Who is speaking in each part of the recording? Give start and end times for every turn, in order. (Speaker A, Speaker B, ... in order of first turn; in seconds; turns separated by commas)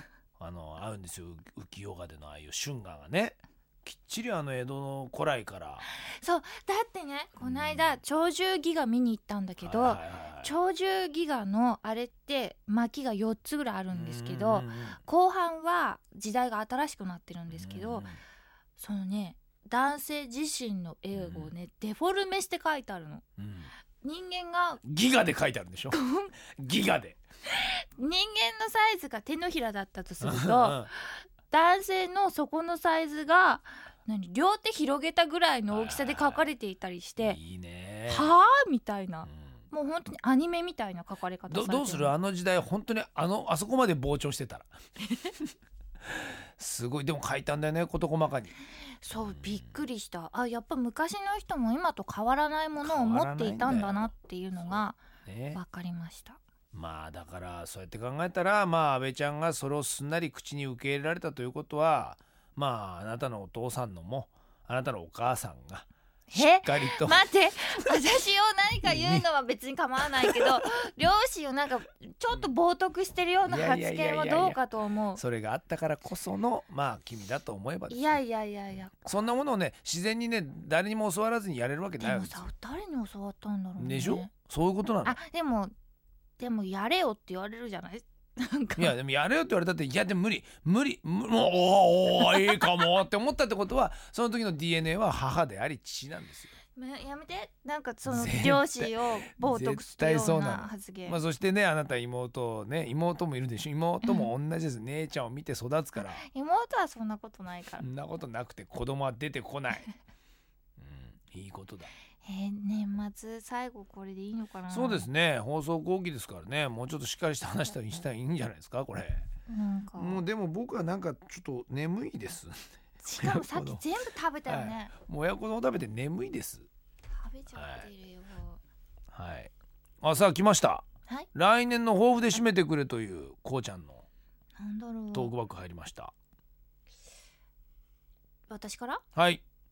Speaker A: 0.4-5.9, Speaker B: 6.0-18.1, Speaker A: 7.4-8.0, Speaker A: 9.6-10.5, Speaker A: 13.9-15.0, Speaker A: 17.5-18.2, Speaker B: 18.8-23.2, Speaker A: 21.1-21.5, Speaker A: 23.4-23.7, Speaker B: 24.0-24.8, Speaker A: 24.8-27.2, Speaker B: 25.9-26.3, Speaker B: 27.5-37.4, Speaker A: 30.2-30.9, Speaker A: 35.7-36.5, Speaker A: 37.2-38.3, Speaker B: 38.1-42.1, Speaker A: 39.3-39.6, Speaker A: 41.5-44.8, Speaker A: 46.6-48.5, Speaker B: 49.0-55.0, Speaker A: 49.2-49.8, Speaker A: 52.8-55.6, Speaker B: 55.5-56.4, Speaker A: 56.7-67.3, Speaker B: 66.3-75.2, Speaker A: 68.8-69.3, Speaker A: 73.5-74.6, Speaker A: 75.2-78.1, Speaker B: 77.9-79.0, Speaker A: 79.0-82.5, Speaker B: 82.0-84.3, Speaker A: 83.8-85.2, Speaker B: 85.0-85.7, Speaker B: 86.4-89.0, Speaker A: 88.8-96.6, Speaker B: 96.8-101.2, Speaker A: 98.1-106.2, Speaker B: 104.0-104.3, Speaker B: 106.0-107.9, Speaker A: 107.8-109.9, Speaker A: 110.8-111.9, Speaker B: 112.2-115.1, Speaker A: 114.7-119.3, Speaker B: 119.5-120.2, Speaker A: 120.0-122.7, Speaker B: 123.0-124.9, Speaker A: 123.2-123.8, Speaker A: 124.5-126.7, Speaker B: 127.1-128.6, Speaker A: 127.5-127.9, Speaker A: 129.1-129.5, Speaker A: 130.0-134.1, Speaker B: 134.6-135.3, Speaker A: 135.1-136.1, Speaker B: 138.5-139.0, Speaker A: 139.2-139.4